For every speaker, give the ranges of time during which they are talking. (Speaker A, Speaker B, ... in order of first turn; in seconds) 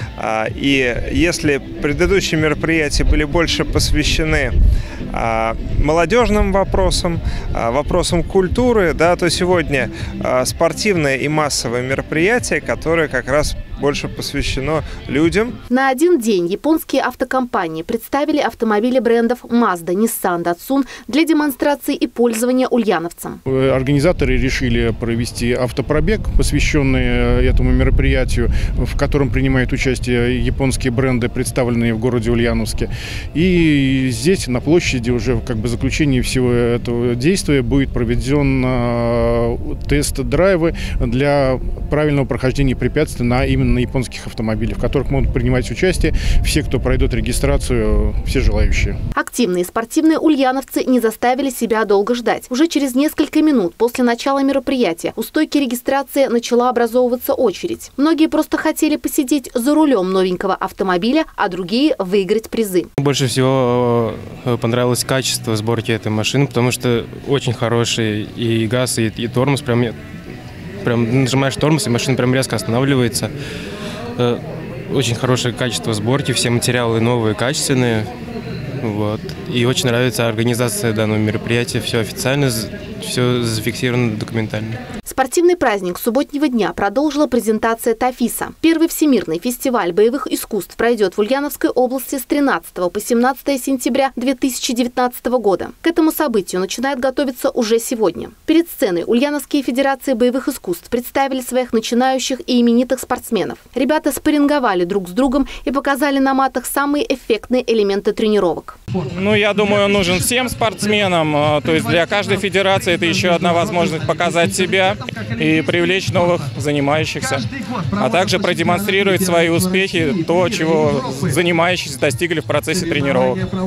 Speaker A: 0.2-4.5, 5.1-15.5
Speaker B: 15.7-23.4, 49.1-62.9, 85.0-108.8
Speaker C: 23.4-49.0
Speaker D: 63.0-70.0, 70.8-73.3, 74.2-78.1, 78.8-84.8
Speaker E: 109.1-123.4